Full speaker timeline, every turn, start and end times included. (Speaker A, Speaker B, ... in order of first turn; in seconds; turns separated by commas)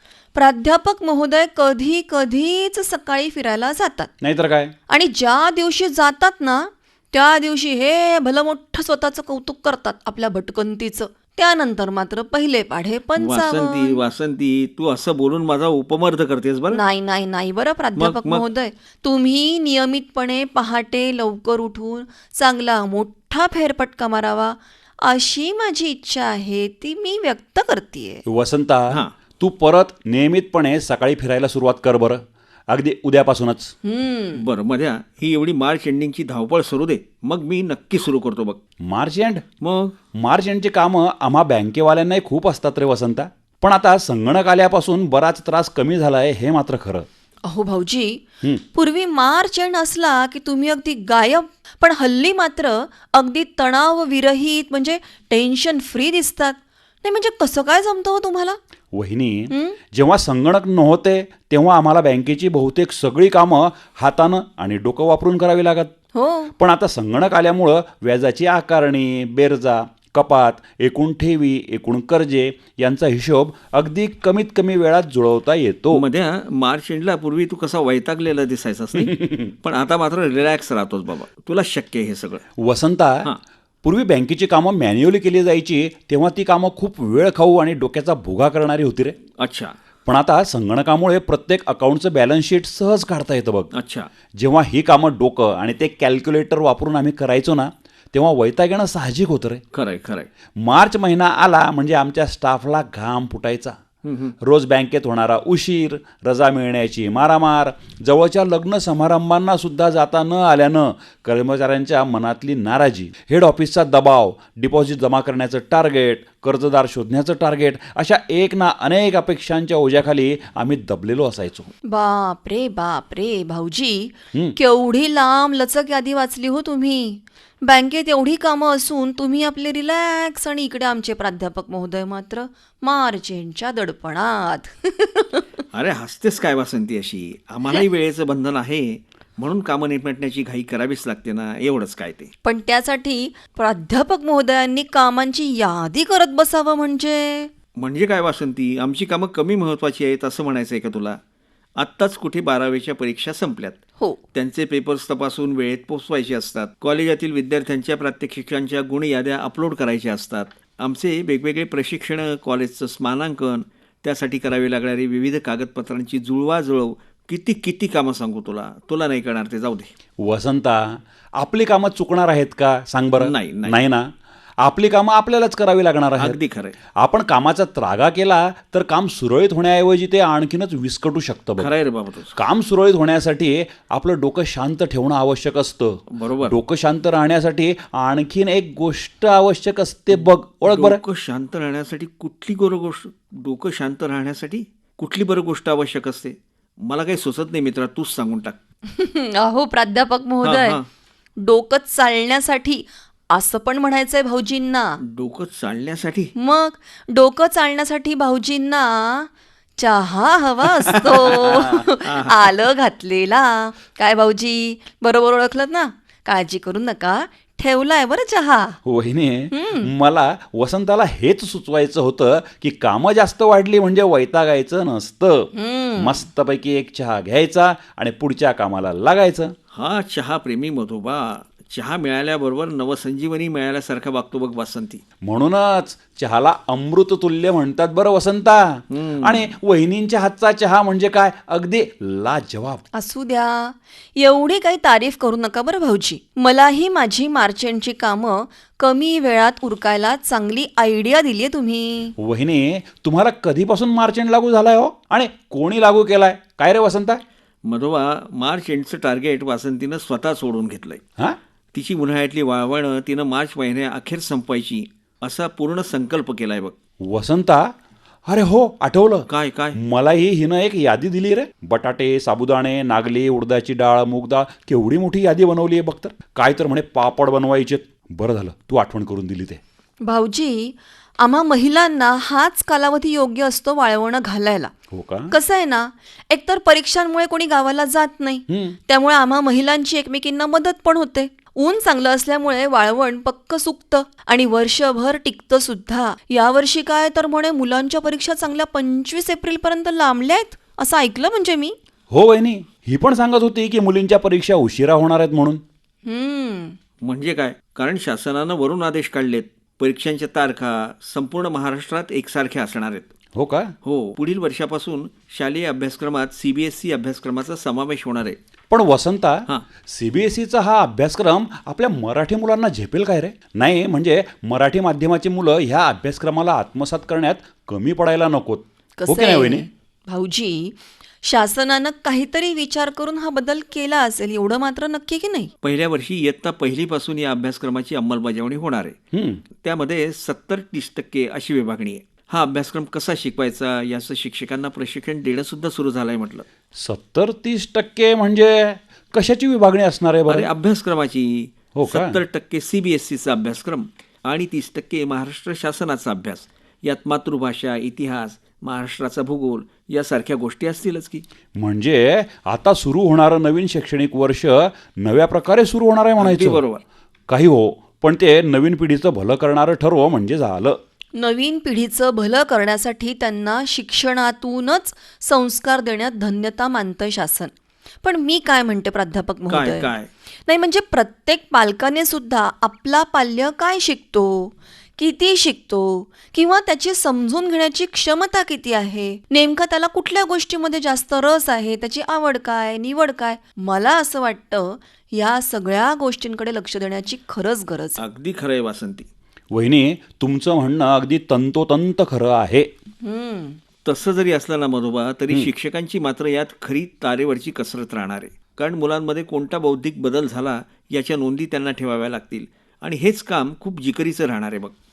Speaker A: 0.3-4.1, Speaker B: 4.2-4.7, Speaker A: 4.9-14.0, Speaker C: 13.2-16.8, Speaker A: 16.7-28.2, Speaker C: 18.0-18.4, Speaker B: 28.2-33.7, Speaker A: 33.8-34.4, Speaker C: 34.4-38.6, Speaker B: 38.9-39.4, Speaker C: 39.6-39.9, Speaker B: 40.1-47.1, Speaker A: 47.4-58.6, Speaker B: 58.9-65.9, Speaker A: 59.5-59.8, Speaker A: 66.1-66.5, Speaker B: 66.6-76.0, Speaker C: 75.9-82.4, Speaker B: 79.0-79.5, Speaker B: 82.6-83.3, Speaker B: 83.8-89.2, Speaker C: 89.4-89.7, Speaker B: 90.1-93.7, Speaker C: 93.7-94.1, Speaker B: 94.3-99.6, Speaker C: 99.7-100.3, Speaker B: 100.6-103.8, Speaker C: 104.0-104.3, Speaker B: 104.4-121.7, Speaker A: 121.8-135.4, Speaker C: 135.7-142.3, Speaker A: 142.4-147.5, Speaker C: 147.8-151.2, Speaker C: 151.8-153.8, Speaker C: 154.3-169.9, Speaker B: 170.2-174.1, Speaker C: 173.2-173.8, Speaker B: 174.6-176.4, Speaker C: 176.2-176.7, Speaker B: 177.0-181.7, Speaker C: 181.6-182.3, Speaker B: 182.3-191.0, Speaker C: 186.1-186.6, Speaker C: 190.1-198.6, Speaker A: 198.9-200.8, Speaker C: 200.4-200.8, Speaker A: 201.4-205.0, Speaker C: 205.1-206.3, Speaker A: 206.3-218.8, Speaker C: 210.8-212.5, Speaker B: 218.8-229.5, Speaker A: 219.5-219.9, Speaker A: 225.5-226.2, Speaker C: 229.7-235.0, Speaker B: 235.2-242.8, Speaker C: 238.9-239.5, Speaker A: 242.9-252.1, Speaker B: 252.2-257.2, Speaker C: 257.6-261.0, Speaker C: 261.7-266.7, Speaker B: 267.1-267.7, Speaker B: 268.3-279.6, Speaker C: 269.3-269.8, Speaker A: 280.0-284.7, Speaker B: 284.9-285.3, Speaker A: 285.3-301.7, Speaker B: 288.5-288.8, Speaker B: 302.1-305.6, Speaker A: 306.1-306.8, Speaker C: 307.0-313.1, Speaker B: 313.3-313.7, Speaker C: 313.8-318.4, Speaker B: 318.7-329.7, Speaker A: 329.0-335.5, Speaker C: 335.6-338.9, Speaker B: 339.1-339.4, Speaker C: 339.6-346.4, Speaker B: 346.7-350.5, Speaker C: 350.3-361.2, Speaker B: 351.7-352.2, Speaker B: 361.6-366.6, Speaker C: 366.2-366.8, Speaker B: 367.3-370.8, Speaker A: 371.1-379.9, Speaker C: 379.5-380.1, Speaker A: 380.4-398.0, Speaker C: 398.0-399.1, Speaker B: 399.5-402.7, Speaker A: 403.0-403.6, Speaker C: 403.9-414.7